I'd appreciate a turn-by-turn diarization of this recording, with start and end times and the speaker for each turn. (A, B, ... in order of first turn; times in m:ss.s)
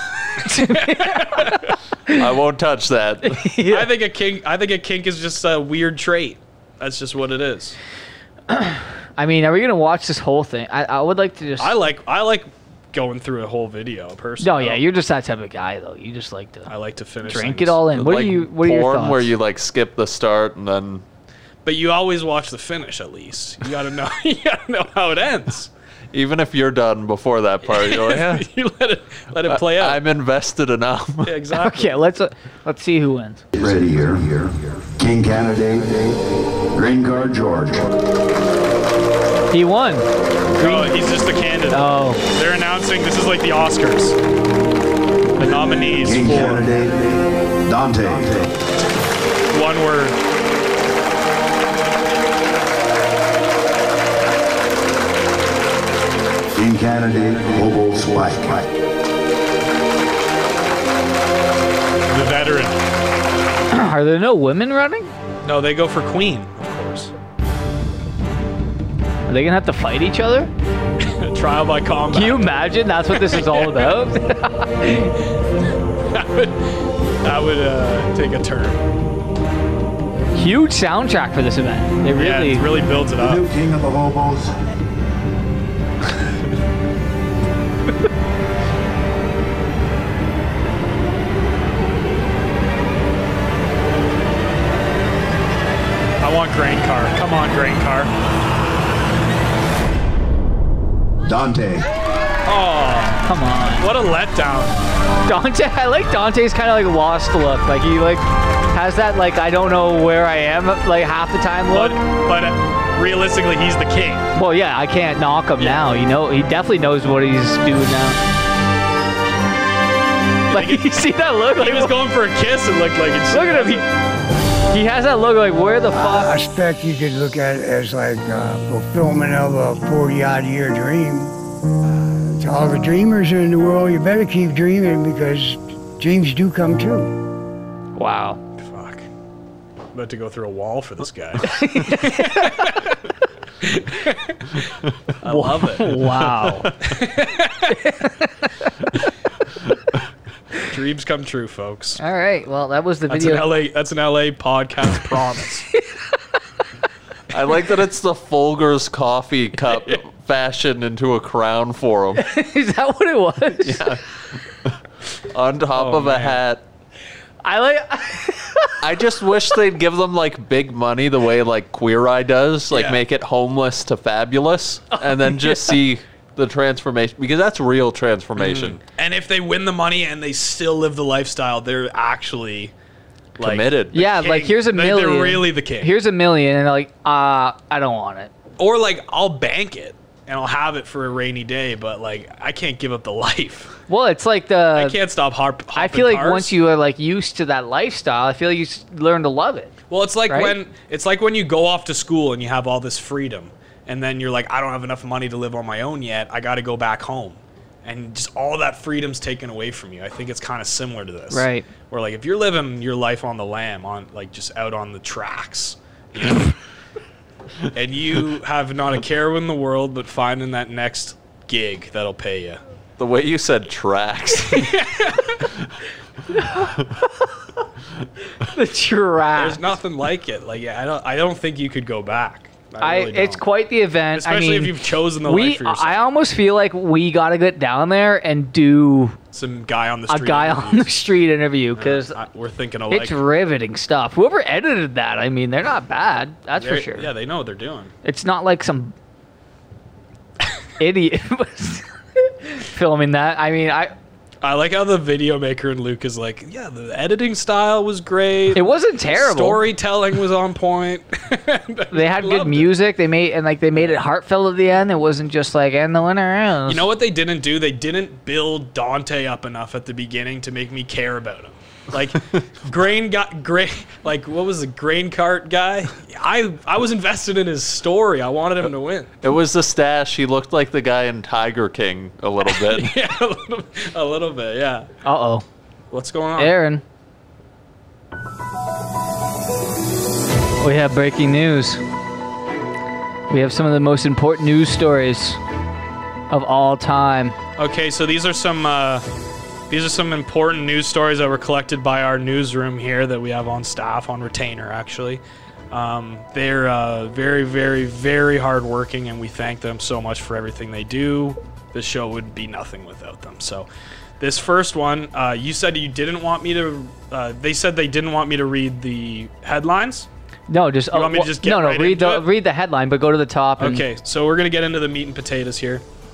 0:00.4-0:02.2 A
0:00.7-0:01.7 B
0:02.1-0:03.5 C
0:03.3-0:03.9 A
0:03.7-0:07.8 B
0:08.5-0:11.7 A
0:11.6-0:14.8 B
0:14.4-0:16.7 A
0:16.7-0:17.8 B
0:17.2-0:19.3 A
0:17.9-0:21.0 C
0:21.6-0:25.7 B
0:26.1-0:28.5 C
0:27.6-0:30.0 B
0:29.4-0:31.3 C
0:31.2-0:31.9 B
0:31.6-0:33.4 A
0:33.5-0:36.2 D
0:36.7-0:37.9 D
0:39.5-0:40.9 A
0:40.6-0:44.2 B
0:41.7-0:42.2 A
0:45.4-0:46.7 B
0:45.9-0:48.5 D
0:49.5-0:50.2 B
0:56.5-0:58.7 D
1:02.1-1:02.8 B
1:03.7-1:05.1 A
1:05.4-1:07.1 B
1:09.3-1:10.5 A
1:11.0-1:14.0 B
1:12.1-1:15.2 A
1:16.1-1:16.7 B
1:17.2-1:18.8 B
1:20.3-1:22.6 A
1:22.1-1:23.4 B
1:23.2-1:24.5 D
1:36.2-1:38.1 B
1:41.2-1:41.9 D
1:42.4-1:44.8 B
1:43.2-1:43.8 A
1:45.2-1:52.0 A
1:51.7-1:54.3 B
1:54.4-1:58.2 A
2:00.5-2:00.8 B
2:00.5-2:01.9 A
2:01.6-2:03.8 B
2:03.3-2:03.8 A
2:04.7-2:06.4 A
2:06.0-2:11.3 E
2:12.1-2:17.1 E
2:18.0-2:18.4 A
2:18.6-2:19.0 B
2:19.9-2:22.9 B
2:21.4-2:22.8 A
2:23.6-2:24.4 B
2:25.2-2:27.8 B
2:25.2-2:26.7 A
2:27.7-2:28.4 A
2:30.6-2:32.0 B
2:32.0-2:33.5 A
2:33.1-2:35.7 B
2:37.3-2:42.3 C
2:42.2-2:43.8 A
2:43.6-2:44.0 C
2:45.3-2:46.6 C
2:45.7-2:46.4 B
2:47.4-2:48.8 A
2:48.8-2:58.8 C
2:52.7-2:53.0 B
2:55.0-2:55.8 A
2:58.4-3:02.7 B
3:03.4-3:05.9 B
3:03.4-3:04.0 C
3:03.9-3:08.3 A
3:08.6-3:13.7 B
3:13.9-3:15.0 A
3:14.8-3:16.5 B
3:15.7-3:19.7 A
3:19.9-3:36.5 B
3:20.3-3:20.6 A
3:31.3-3:31.7 A
3:37.7-3:42.6 B
3:43.0-3:44.8 C
3:44.5-3:45.5 B
3:46.3-3:47.0 A
3:48.4-3:49.6 A
3:49.4-3:53.4 B
3:52.8-3:59.2 A
3:54.1-3:56.0 B
3:59.3-4:00.9 B
4:00.1-4:02.2 A
4:01.8-4:03.2 B
4:02.9-4:07.1 A
4:06.6-4:07.9 B
4:08.0-4:08.9 A
4:10.8-4:13.9 A
4:14.4-4:22.7 B
4:18.5-4:19.6 A
4:21.9-4:26.8 A
4:23.7-4:24.0 B
4:26.7-4:39.1 B
4:39.2-4:43.0 C
4:42.4-4:44.9 B
4:45.0-4:45.4 A
4:45.9-4:46.6 B
4:46.4-4:46.8 A
4:50.6-4:51.8 A
4:53.3-4:55.4 A
4:56.3-4:57.4 A
4:57.6-4:59.0 B
4:59.7-5:13.7 B
5:14.2-5:20.1 B
5:20.5-5:23.8 A
5:20.9-5:22.2 B
5:23.6-5:25.8 B